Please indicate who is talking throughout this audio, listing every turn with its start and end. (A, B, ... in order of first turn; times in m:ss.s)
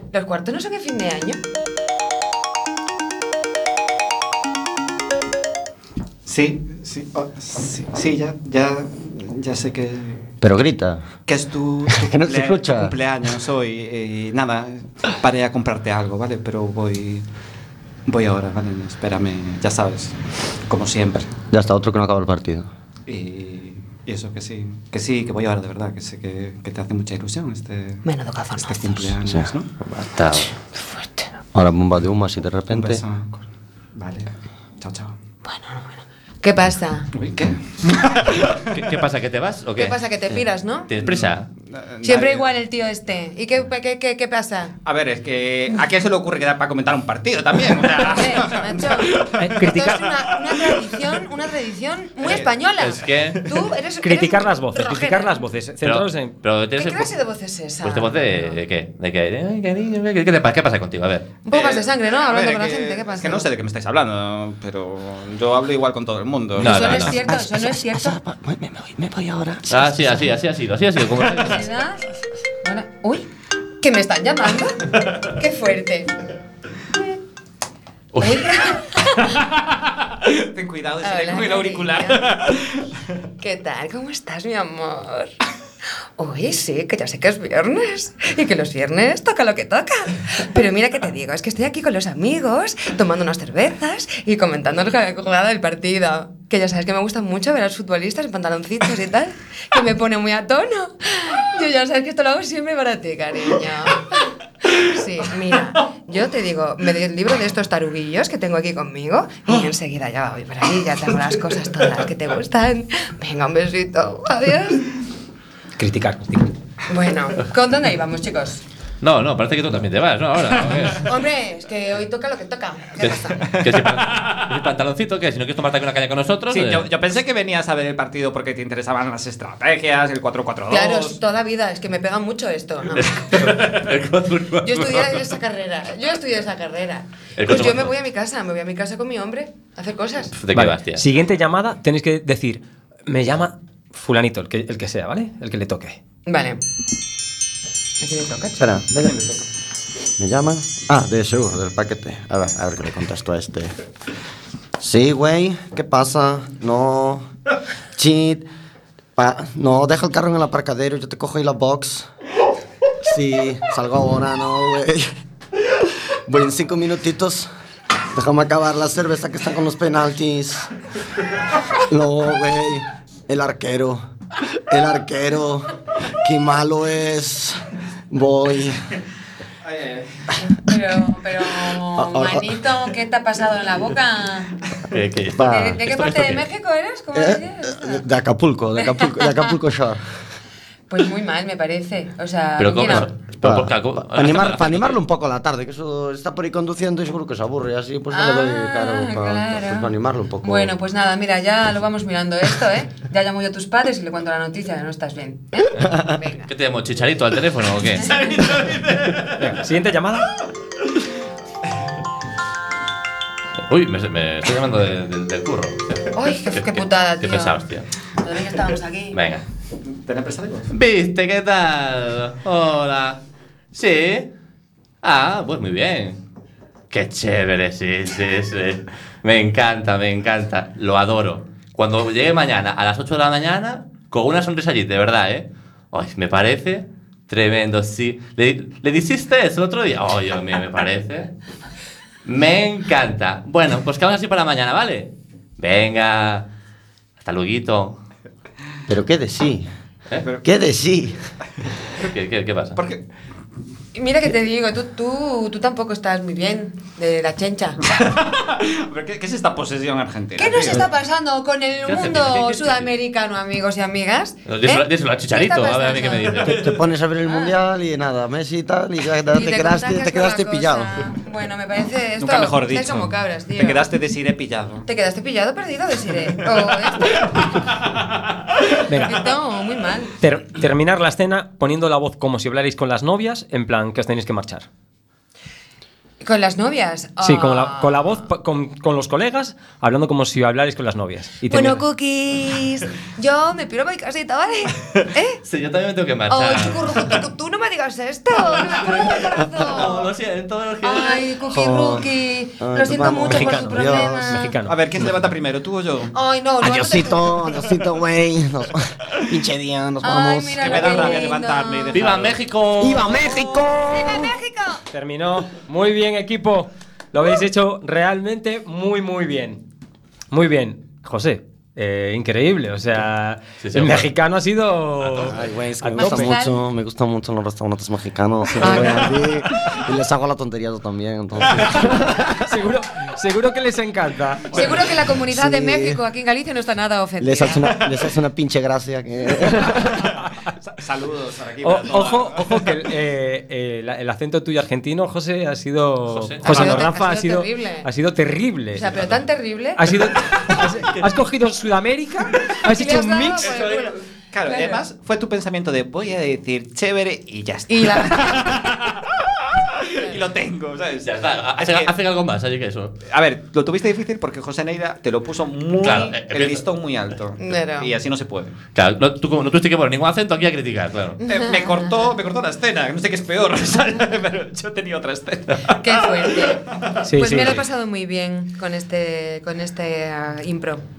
0:00.1-0:01.4 A
0:06.2-0:10.3 B
0:10.4-0:11.1 C
0:11.3-0:17.2 B
0:11.9-0:12.9 C
0:18.0-0:20.2 B
0:20.7-0:21.3 B
0:21.5-0:22.7 C
0:23.1-0:28.0 B
0:28.0-0:29.2 A
0:28.6-0:29.7 B
0:29.8-0:30.5 D
0:30.8-0:31.3 A
0:31.5-0:33.0 C
0:32.7-0:35.1 B
0:35.4-0:37.1 A
0:37.1-0:38.6 B
0:38.7-0:40.0 D
0:39.8-0:40.9 A
0:40.9-0:41.5 D
0:41.1-0:42.5 B
0:42.0-0:44.8 A
0:44.8-0:49.5 B
0:48.0-0:55.4 A
0:49.4-0:50.0 E
0:52.2-0:52.5 B
0:52.8-0:53.4 D
0:53.2-0:53.5 B
0:54.0-0:56.3 E
0:55.8-0:57.1 D
0:56.8-0:58.6 A
0:57.8-1:01.3 D
1:01.4-1:03.5 A
1:01.5-1:07.0 B
1:06.6-1:07.2 D
1:06.6-1:08.2 A
1:07.2-1:10.2 C
1:09.7-1:11.7 D
1:11.3-1:12.1 A
1:12.6-1:13.3 A
1:13.8-1:16.1 A
1:18.1-1:18.5 D
1:18.2-1:19.4 A
1:19.6-1:22.9 B
1:21.0-1:22.4 A
1:23.4-1:25.3 A
1:26.2-1:54.9 A
1:55.8-1:56.5 E
1:56.9-1:58.6 A
1:59.0-2:01.1 D
2:01.0-2:03.5 A
2:03.0-2:06.9 D
2:03.7-2:04.3 B
2:06.5-2:11.2 B
2:10.7-2:13.6 A
2:12.9-2:15.2 D
2:14.6-2:20.3 A
2:17.4-2:17.9 D
2:20.4-2:21.0 D
2:20.5-2:26.0 E
2:26.2-2:26.6 A
2:28.0-2:28.7 A
2:28.6-2:29.2 C
2:29.0-2:29.4 B
2:30.2-2:33.7 C
2:34.8-2:37.3 C
2:38.0-2:38.4 C
2:39.2-2:42.1 C
2:43.0-2:45.1 C
2:46.3-2:47.5 C
2:48.1-2:50.7 C
2:51.8-2:54.0 C
2:54.7-2:58.8 C
2:59.6-3:00.3 B
3:00.6-3:04.6 A
3:01.9-3:02.5 C
3:04.9-3:06.4 D
3:05.3-3:05.8 C
3:05.4-3:08.0 A
3:07.1-3:10.0 C
3:08.8-3:09.5 A
3:10.9-3:13.1 A
3:12.6-3:15.0 D
3:13.4-3:20.7 C
3:18.1-3:19.9 A
3:20.4-3:26.5 A
3:26.5-3:28.8 D
3:28.0-3:28.5 A
3:29.3-3:30.3 E
3:33.6-3:37.9 D
3:36.1-3:37.6 A
3:38.2-3:39.2 A
3:39.1-3:39.4 D
3:39.9-3:40.7 B
3:40.7-3:43.2 D
3:43.7-3:44.3 D
3:45.0-3:46.2 D
3:46.9-4:01.3 D
4:02.2-4:06.5 D
4:07.2-4:08.0 D
4:08.9-4:09.7 C
4:10.2-4:10.4 B
4:10.4-4:11.2 C
4:12.0-4:12.8 D
4:12.8-4:13.0 B
4:13.9-4:17.8 A
4:17.9-4:20.9 B
4:20.4-4:26.6 A
4:21.8-4:22.9 D
4:24.4-4:26.7 D
4:26.4-4:31.1 C
4:27.2-4:27.6 A
4:29.3-4:33.9 A
4:32.2-4:34.8 B
4:34.8-4:37.8 A
4:38.8-4:39.2 E
4:38.9-4:40.1 A
4:40.2-4:44.7 E
4:46.2-4:48.1 A
4:47.2-4:51.8 E
4:51.5-4:55.4 A
4:55.4-4:57.1 D
4:56.3-5:00.1 A
4:58.5-5:01.3 D
5:00.8-5:04.5 A
5:01.5-5:02.1 C
5:02.6-5:04.5 C
5:03.4-5:03.7 E
5:04.3-5:04.8 E
5:04.6-5:06.1 B
5:06.1-5:07.6 A
5:06.6-5:11.3 C
5:10.0-5:12.1 A
5:10.6-5:12.4 B
5:11.9-5:13.4 D
5:12.8-5:14.4 C
5:13.9-5:14.8 A
5:14.9-5:19.6 E
5:20.3-5:26.4 E
5:23.6-5:24.0 D
5:25.2-5:32.4 C
5:26.0-5:26.6 A
5:28.6-5:29.2 A
5:32.1-5:34.7 E
5:34.5-5:34.8 B
5:34.5-5:37.8 A
5:35.3-5:36.0 C
5:37.2-5:40.0 C
5:39.7-5:42.6 B
5:41.6-5:48.9 E
5:46.1-5:46.7 D
5:46.4-5:47.9 A
5:48.7-5:49.9 A
5:49.8-5:53.5 E
5:52.6-5:54.8 A
5:54.3-6:01.9 B
5:57.7-5:58.7 A
5:59.9-6:00.2 A
6:01.0-6:03.0 D
6:03.0-6:08.6 B
6:05.8-6:06.6 D
6:07.4-6:07.9 A
6:08.7-6:11.2 D
6:11.2-6:12.0 A
6:11.2-6:17.0 B
6:15.8-6:20.8 A
6:17.0-6:17.6 E